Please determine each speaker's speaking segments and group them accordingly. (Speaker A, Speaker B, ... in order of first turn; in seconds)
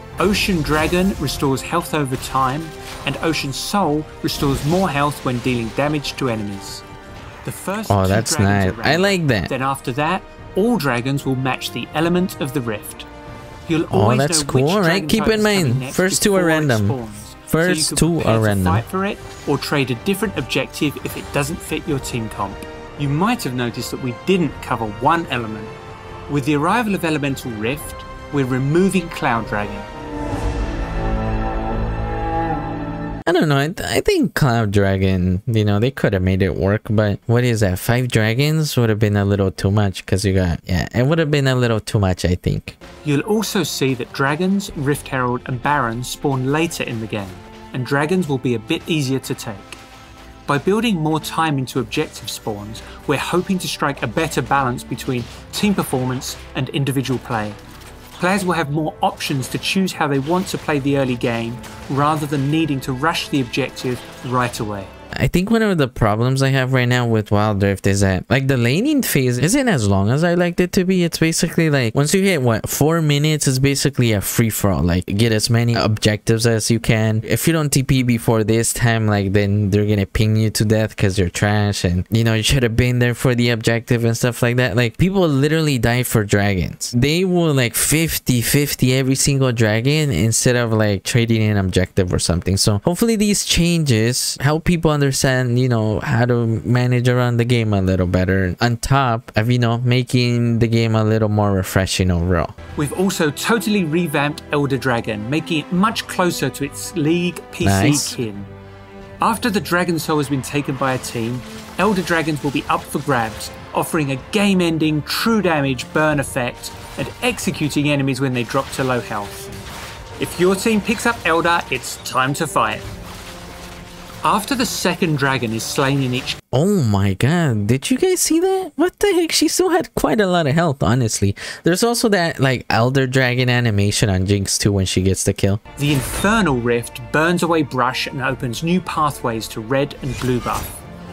Speaker A: 0.2-6.8, 7.4-13.1, 13.7-25.7, 26.3-29.9, 43.0-49.8, 50.5-57.6, 58.2-64.9, 102.8-108.5, 109.2-119.6, 120.2-122.8, 124.2-126.4, 135.8-140.8
Speaker B: 7.9-9.5, 13.9-17.0, 17.5-18.8, 33.2-42.8, 65.1-102.5, 107.6-108.2, 126.5-135.6